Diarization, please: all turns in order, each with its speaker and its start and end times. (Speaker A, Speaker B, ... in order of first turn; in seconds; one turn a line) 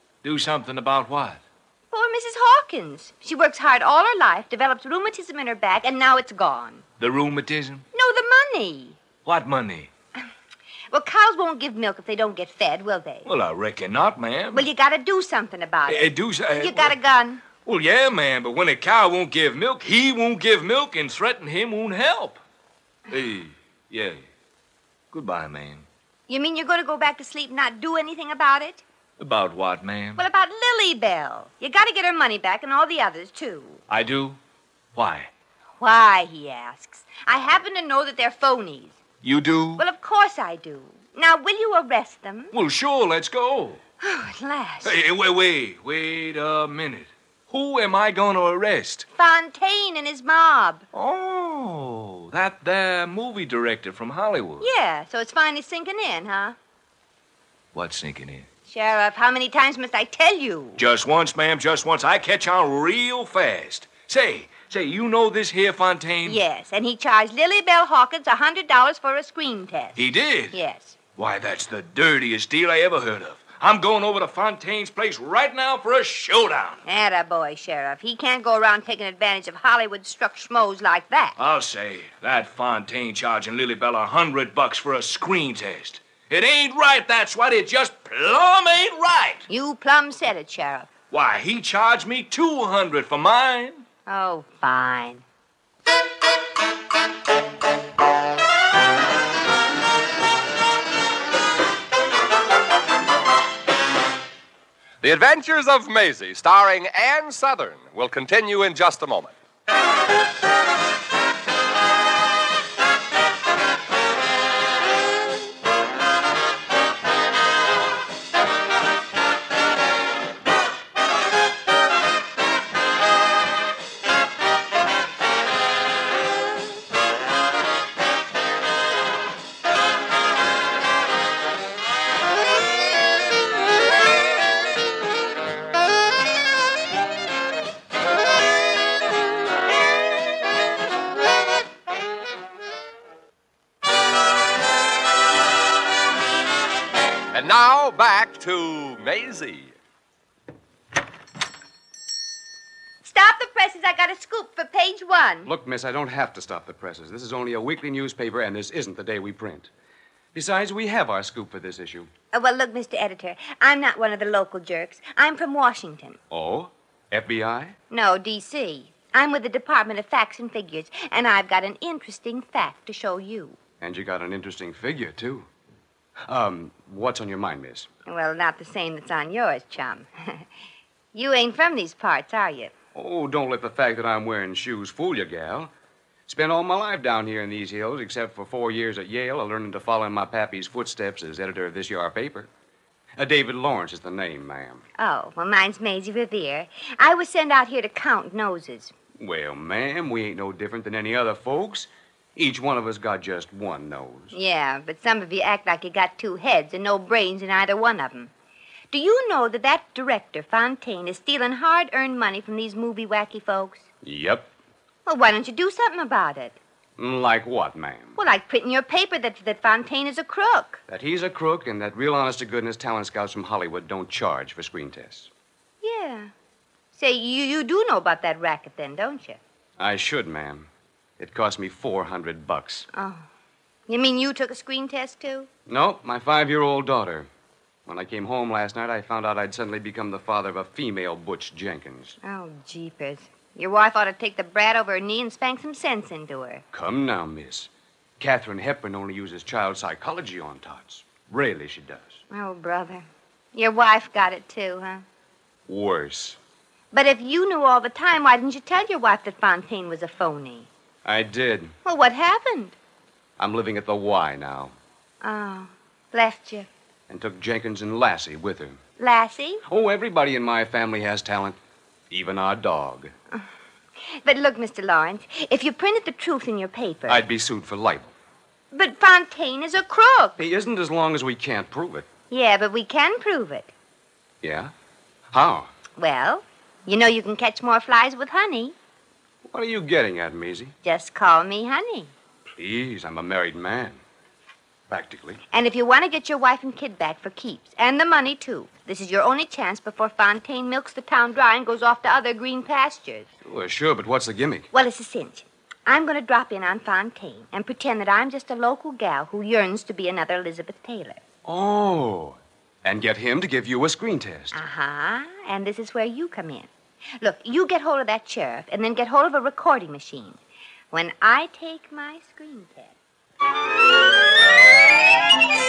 Speaker A: 0.2-1.4
Speaker B: 1.9-6.8
Speaker A: 7.0-7.9
Speaker B: 7.9-9.0
Speaker A: 9.2-9.9
Speaker B: 10.9-13.3
Speaker A: 13.3-14.7
Speaker B: 14.5-17.4
Speaker A: 15.9-16.9
Speaker A: 17.6-22.4
Speaker A: 23.1-24.2
Speaker A: 25.1-25.9
Speaker B: 26.3-28.8
Speaker A: 29.2-30.2
Speaker B: 30.2-33.8
Speaker A: 33.9-34.4
Speaker A: 35.0-35.3
Speaker B: 35.8-39.0
Speaker A: 39.2-39.8
Speaker B: 39.8-42.5
Speaker A: 42.5-43.8
Speaker B: 44.0-44.9
Speaker A: 44.8-49.1
Speaker B: 49.1-50.8
Speaker A: 50.9-54.7
Speaker B: 54.6-56.5
Speaker A: 57.7-58.5
Speaker B: 58.7-60.8
Speaker A: 60.8-66.4
Speaker B: 66.2-70.0
Speaker A: 70.0-70.5
Speaker B: 70.5-71.0
Speaker A: 71.2-76.8
Speaker B: 76.9-81.3
Speaker A: 81.4-89.5
Speaker B: 89.5-90.9
Speaker A: 91.1-93.8
Speaker B: 94.1-95.2
Speaker C: 105.0-109.3
Speaker C: 147.3-149.7
Speaker B: 153.0-155.5
Speaker D: 155.4-159.7
Speaker D: 160.3-162.1
Speaker B: 162.3-166.2
Speaker D: 166.3-167.8
Speaker B: 167.9-173.6
Speaker D: 173.8-175.5
Speaker D: 176.3-177.9
Speaker B: 178.1-180.4
Speaker B: 181.1-182.7
Speaker D: 182.9-185.7
Speaker D: 186.3-192.5
Speaker D: 193.2-194.8
Speaker B: 195.0-198.9
Speaker D: 199.2-204.3
Speaker B: 204.3-208.3
Speaker B: 208.9-213.8
Speaker D: 214.0-214.5
Speaker B: 215.1-216.6
Speaker D: 217.0-218.2
Speaker B: 218.2-220.8
Speaker D: 220.9-225.3
Speaker B: 225.8-226.3
Speaker B: 226.9-229.4
Speaker D: 229.8-230.7
Speaker D: 231.2-232.9
Speaker B: 232.9-233.3
Speaker B: 233.9-235.5
Speaker D: 235.7-237.3
Speaker D: 237.9-242.2
Speaker B: 242.2-246.6
Speaker D: 246.7-247.7
Speaker D: 248.2-252.2
Speaker B: 252.3-255.0
Speaker D: 255.7-256.4
Speaker B: 256.9-260.7
Speaker D: 261.1-261.8
Speaker B: 261.8-262.7
Speaker D: 263.4-264.7
Speaker B: 265.2-266.7
Speaker D: 267.1-268.8
Speaker B: 269.0-269.6
Speaker D: 269.7-271.6
Speaker D: 272.1-273.1
Speaker B: 274.2-277.2
Speaker D: 277.1-278.1
Speaker B: 278.7-280.4
Speaker D: 280.4-282.1
Speaker B: 282.3-283.7
Speaker D: 284.4-284.7
Speaker D: 285.3-285.7
Speaker B: 286.0-288.7
Speaker D: 289.4-290.7
Speaker B: 290.8-292.1
Speaker D: 292.6-294.0
Speaker D: 294.9-295.4
Speaker B: 295.5-303.3
Speaker D: 303.4-304.7
Speaker B: 304.7-311.2
Speaker D: 311.4-314.6
Speaker B: 314.5-320.4
Speaker B: 320.9-322.9